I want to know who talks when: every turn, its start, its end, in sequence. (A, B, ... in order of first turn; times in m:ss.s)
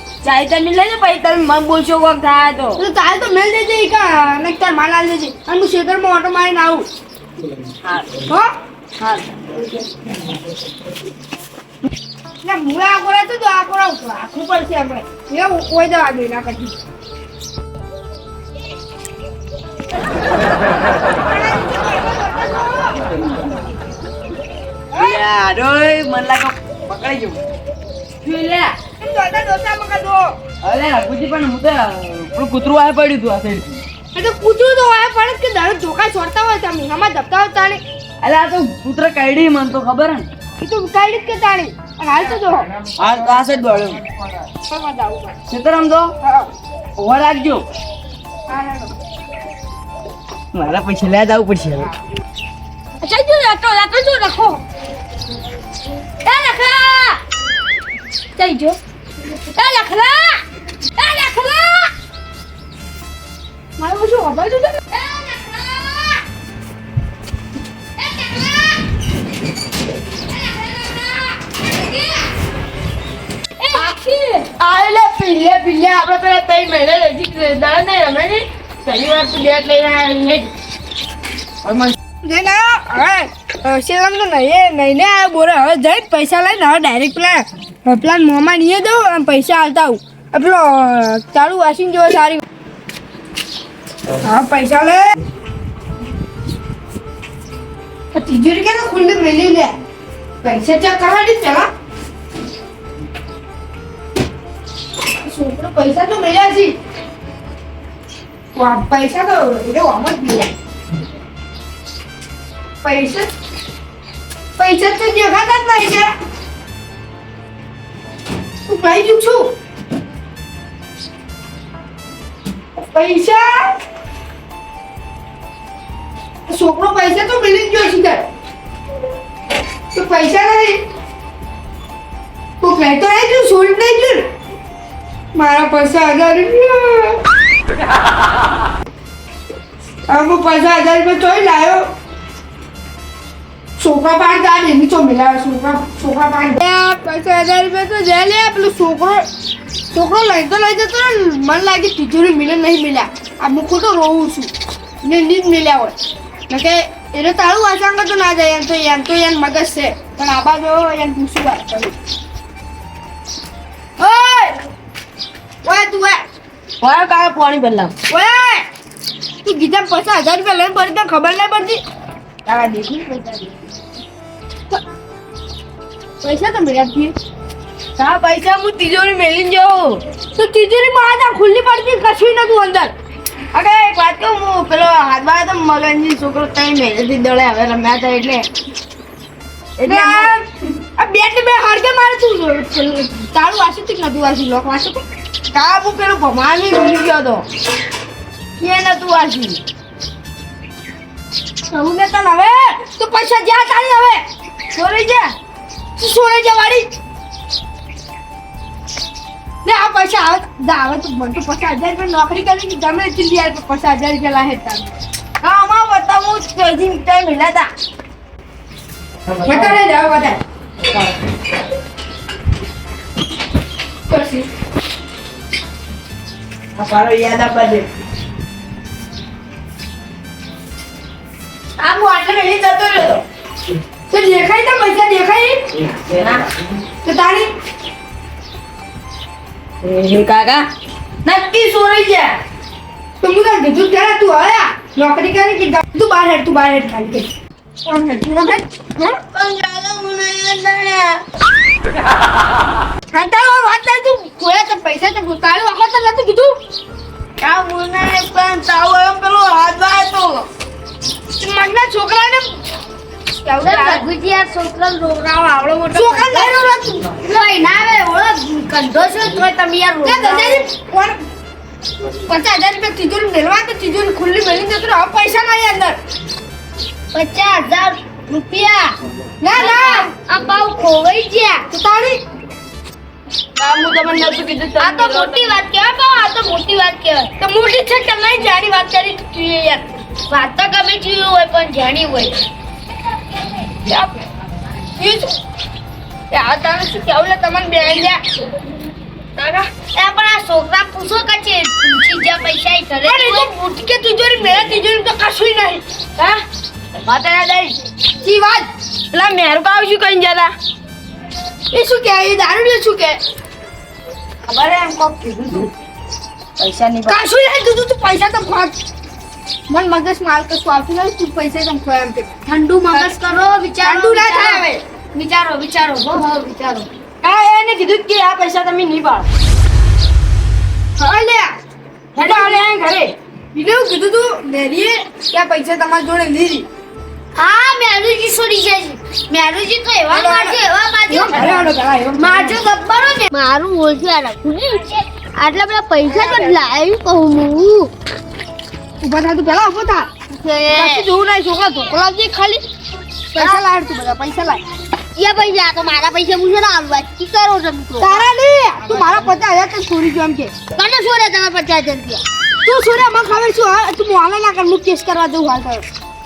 0:00.2-0:02.8 A
0:02.8-0:06.9 B
0:09.0-0:09.6 A
0:12.4-0:16.8 B
0:21.3-0:23.1 B
0:24.9-0:25.2 B
0:25.0-0:27.4 C
0:28.2-0:28.8 C
0:29.0-0:30.3 B
0:30.6-0:33.8 C
0:34.1-0:37.8 B
0:38.2-0:40.3 C
0:40.6-0:42.7 B
0:43.0-0:44.0 C
0:44.7-0:45.4 B
0:45.5-0:46.1 C
0:46.2-0:46.5 B
0:47.0-0:47.6 C
0:48.5-0:48.9 B
0:50.5-0:51.9 C
0:53.0-0:54.6 B
0:56.2-0:57.2 D
0:58.4-0:58.8 B
0:59.6-1:00.2 B
1:01.0-1:01.4 B
1:01.4-1:01.8 D
1:03.8-1:04.8 B
1:04.9-1:06.2 D
1:08.0-1:08.8 D
1:10.3-1:12.2 D
1:13.8-1:14.3 B
1:14.4-1:20.5 A
1:21.6-1:21.9 A
1:22.2-1:32.4 B
1:34.2-1:35.1 B
1:38.1-1:39.7 B
1:40.4-1:41.7 B
1:45.2-1:46.8 B
1:48.6-1:50.5 B
1:52.8-1:53.3 B
1:54.6-1:56.1 B
1:58.7-1:59.5 B
2:02.8-2:03.7 B
2:06.5-2:08.2 B
2:09.9-2:10.8 B
2:12.6-2:14.2 B
2:15.3-2:17.2 B
2:20.1-2:21.9 B
2:23.8-2:29.2 B
2:29.9-2:34.5 B
2:35.0-2:35.9 B
2:36.5-2:41.9 B
2:44.0-2:44.5 B
2:45.6-2:46.2 B
2:46.8-2:47.9 A
2:48.1-2:48.6 B
2:49.4-2:51.8 B
2:52.4-2:53.5 A
2:56.2-2:57.1 B
2:58.0-3:00.0 A
3:00.3-3:02.9 B
3:03.5-3:08.5 A
3:09.8-3:10.3 A
3:09.8-3:10.4 B
3:11.0-3:15.0 B
3:15.5-3:17.4 A
3:18.6-3:19.6 A
3:21.7-3:24.2 B
3:24.7-3:25.3 B
3:26.0-3:26.9 B
3:29.6-3:35.0 B
3:35.4-3:37.7 A
3:39.4-3:40.4 B
3:44.1-3:44.5 B
3:46.8-3:47.8 A
3:51.8-3:53.2 A
3:54.1-3:55.7 B
3:57.0-3:57.5 B
3:59.8-4:00.7 A
4:01.2-4:02.3 A
4:03.2-4:07.3 B
4:07.8-4:09.2 B
4:08.3-4:08.6 D
4:09.4-4:10.9 D
4:13.1-4:16.6 B
4:17.4-4:18.1 D
4:18.1-4:20.4 A
4:21.4-4:22.6 B
4:23.3-4:24.1 B
4:23.6-4:26.6 D
4:25.9-4:27.1 B
4:27.2-4:30.6 D
4:30.0-4:31.2 B
4:32.3-4:36.0 B
4:37.1-4:38.9 D
4:39.4-4:40.1 B
4:39.5-4:41.7 D
4:41.7-4:42.2 B
4:43.6-4:44.2 A
4:44.2-4:45.3 C
4:44.8-4:47.3 D
4:45.0-4:45.3 A
4:47.4-4:49.8 B
4:50.3-4:52.4 D
4:53.8-4:54.2 B
4:55.0-4:55.3 B
4:56.3-4:58.2 B
4:59.9-5:03.5 D
5:03.0-5:05.8 B
5:07.0-5:07.7 A
5:08.2-5:08.7 B
5:09.1-5:10.5 A
5:11.7-5:13.2 B
5:14.5-5:15.7 A
5:16.6-5:17.2 A
5:17.1-5:18.8 B
5:19.7-5:22.4 B
5:22.4-5:26.8 D
5:23.8-5:24.8 B
5:27.2-5:29.2 A
5:31.0-5:31.5 B
5:32.2-5:33.1 A
5:32.2-5:32.6 B
5:33.5-5:36.7 B
5:37.4-5:47.9 D
5:40.1-5:42.6 B
5:46.1-5:46.6 B
5:49.0-5:50.1 B
5:50.3-5:51.0 D
5:50.7-5:52.6 B
5:53.4-5:54.6 B
5:55.2-5:58.2 D
5:58.0-6:00.5 B
5:58.9-5:59.2 D
6:00.7-6:02.2 D
6:02.6-6:05.8 B